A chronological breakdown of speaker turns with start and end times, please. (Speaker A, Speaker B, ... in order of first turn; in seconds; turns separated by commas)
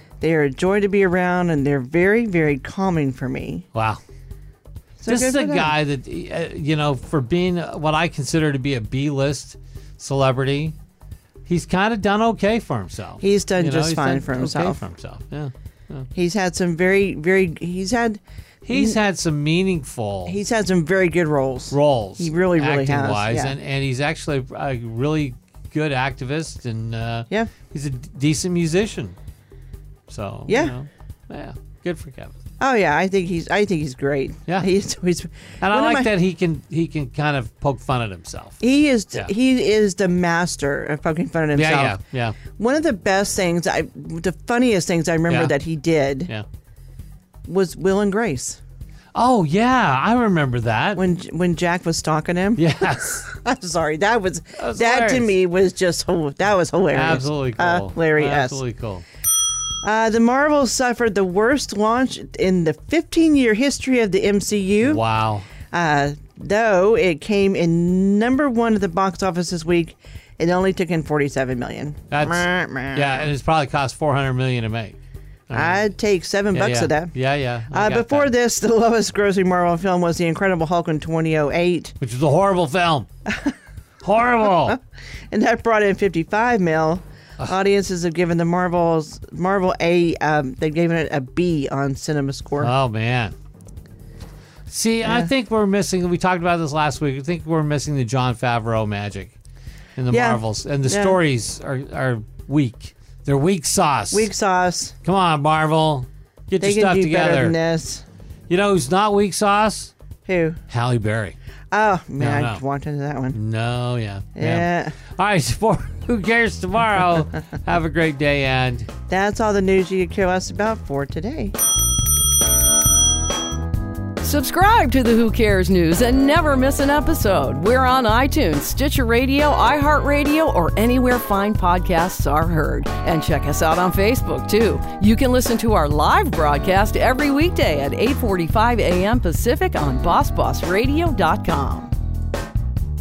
Speaker A: 0.2-3.6, Speaker B: 3.7-4.0, Speaker A: 5.0-5.8, Speaker B: 5.1-10.7, Speaker B: 11.4-16.1, Speaker A: 13.2-14.8, Speaker A: 16.1-19.0, Speaker B: 18.6-20.4, Speaker A: 20.2-23.5, Speaker B: 21.7-29.1, Speaker B: 30.1-32.4, Speaker A: 30.5-30.7, Speaker A: 32.6-36.1, Speaker B: 35.6-38.6, Speaker A: 38.6-42.0, Speaker B: 41.5-42.4, Speaker A: 42.5-46.3, Speaker B: 45.3-45.5, Speaker A: 47.5-48.6, Speaker B: 49.1-51.0, Speaker A: 51.0-58.6, Speaker B: 52.6-53.2, Speaker B: 54.5-55.4, Speaker B: 56.9-59.0, Speaker A: 59.8-65.0, Speaker B: 64.8-65.5, Speaker A: 65.7-73.3, Speaker B: 72.1-75.0, Speaker B: 75.5-75.9, Speaker A: 75.5-77.1, Speaker B: 76.5-78.3, Speaker A: 77.7-81.9, Speaker B: 82.0-83.1, Speaker A: 83.3-83.5, Speaker B: 84.0-84.8, Speaker A: 85.3-92.7, Speaker B: 92.6-93.3, Speaker B: 94.7-99.3, Speaker A: 95.0-95.3, Speaker B: 100.0-104.3, Speaker A: 100.1-101.2, Speaker A: 104.1-104.9, Speaker B: 105.0-107.5, Speaker A: 106.6-108.0, Speaker B: 108.5-109.9, Speaker A: 110.2-110.6, Speaker B: 110.7-111.4, Speaker A: 111.7-113.3, Speaker B: 112.2-112.6, Speaker B: 113.3-118.9, Speaker A: 114.3-115.0, Speaker A: 119.1-121.5, Speaker C: 124.2-141.9